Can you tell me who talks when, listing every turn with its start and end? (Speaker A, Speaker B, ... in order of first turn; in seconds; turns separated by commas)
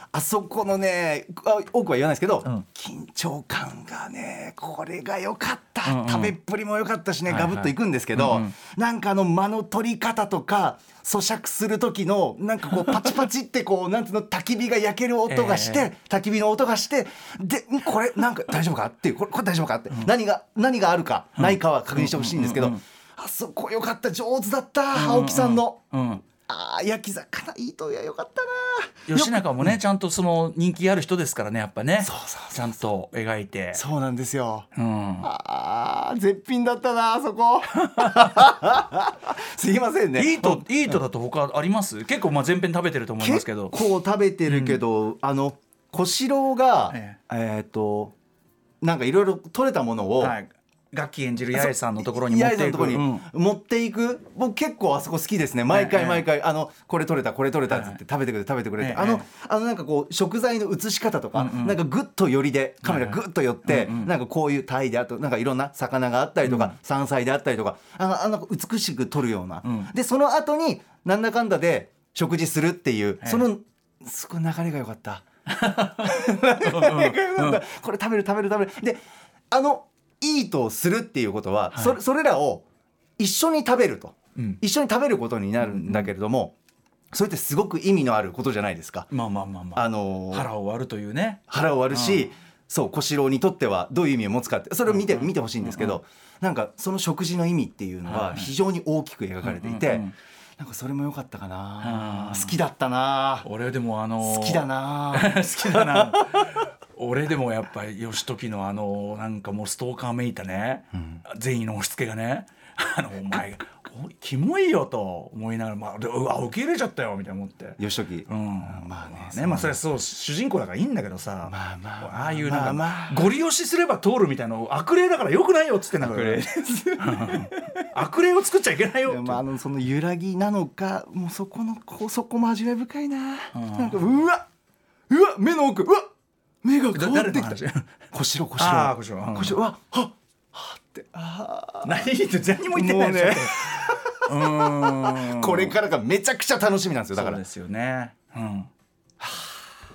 Speaker A: 0.1-29.8, Speaker B: 5.8-6.3, Speaker B: 7.3-8.6, Speaker B: 15.3-15.9, Speaker B: 21.4-22.8, Speaker B: 24.9-26.2, Speaker B: 29.1-33.8, Speaker A: 32.0-32.8, Speaker A: 33.7-34.7, Speaker B: 34.8-35.3, Speaker A: 35.2-41.0, Speaker B: 37.8-38.3, Speaker B: 40.2-43.8, Speaker A: 43.2-48.1, Speaker B: 44.5-44.8, Speaker B: 46.9-47.2, Speaker A: 48.8-50.4, Speaker B: 50.2-53.3, Speaker A: 51.5-82.7, Speaker B: 55.7-56.3, Speaker B: 57.7-58.0, Speaker B: 58.8-59.3, Speaker B: 61.3-61.8, Speaker B: 62.8-64.1, Speaker B: 66.5-66.8, Speaker B: 69.6-69.9, Speaker B: 73.2-73.5, Speaker B: 75.5-77.6, Speaker A: 83.2-86.5, Speaker B: 85.6-86.1, Speaker A: 87.1-89.1, Speaker B: 89.1-92.3, Speaker A: 89.8-90.5, Speaker A: 91.5-100.1, Speaker B: 94.9-96.0, Speaker B: 98.1-98.5, Speaker B: 99.4-100.2, Speaker A: 100.6-103.5, Speaker B: 101.8-102.6, Speaker B: 103.4-129.4, Speaker A: 104.2-106.4, Speaker A: 110.9-111.2, Speaker A: 117.8-119.8, Speaker A: 121.5-123.3, Speaker A: 126.0-127.8, Speaker A: 129.1-134.5, Speaker B: 133.5-134.1, Speaker A: 135.1-136.1, Speaker A: 136.6-137.6, Speaker B: 136.9-137.9, Speaker A: 138.1-142.1, Speaker B: 138.6-139.6, Speaker B: 141.8-145.8, Speaker A: 142.7-147.4, Speaker B: 147.1-148.7, Speaker A: 149.2-149.6